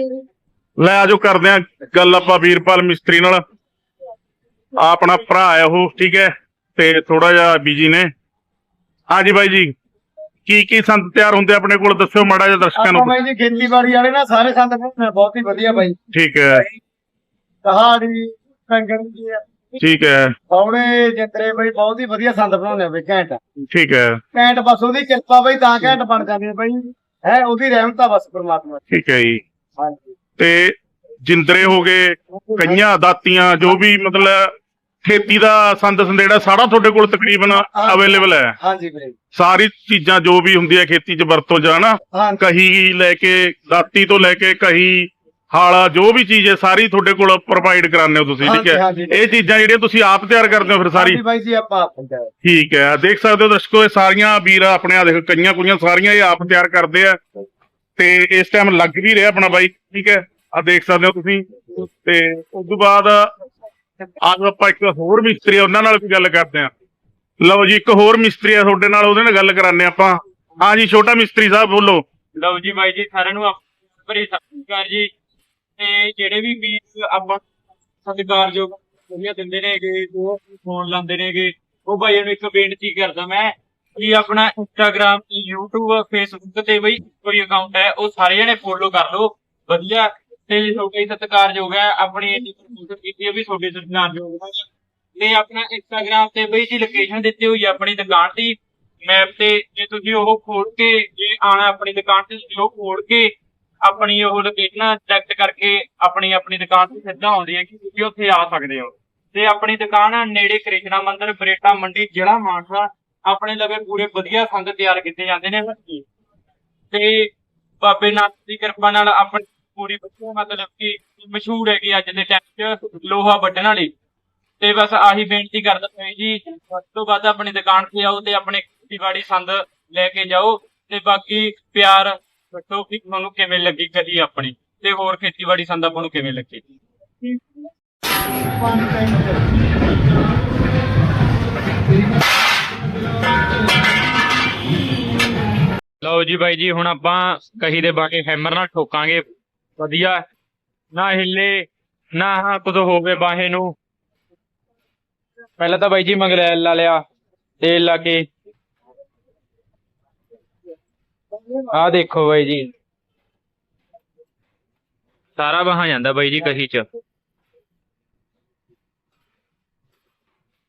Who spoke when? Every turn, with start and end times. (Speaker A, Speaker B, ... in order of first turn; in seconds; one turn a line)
Speaker A: 0.8-3.4
Speaker A: 4.8-8.1
Speaker A: 9.1-9.7
Speaker A: 10.4-13.1
Speaker B: 12.8-16.0
Speaker A: 16.1-16.6
Speaker B: 17.6-19.7
Speaker A: 19.8-20.3
Speaker B: 20.5-23.4
Speaker A: 23.7-24.2
Speaker B: 24.3-28.8
Speaker A: 28.9-29.4
Speaker B: 29.8-30.1
Speaker A: 30.4-34.5
Speaker B: 32.3-32.8
Speaker A: 35.0-38.5
Speaker B: 37.5-39.1
Speaker A: 39.3-51.2
Speaker B: 42.1-42.4
Speaker B: 48.4-49.2
Speaker B: 50.9-52.3
Speaker A: 52.4-57.2
Speaker A: 58.0-63.3
Speaker A: 64.2-66.7
Speaker A: 67.4-72.0
Speaker C: 72.3-75.1
Speaker C: 75.8-77.4
Speaker C: 78.0-94.6
Speaker C: 95.2-116.0
Speaker C: 116.9-123.9
Speaker C: 124.6-136.6
Speaker B: 138.6-139.4
Speaker C: 146.0-149.3
Speaker C: 149.8-150.2
Speaker C: 150.9-153.8
Speaker C: 155.6-157.0
Speaker C: 157.6-158.3
Speaker C: 161.7-162.7
Speaker C: 165.4-166.8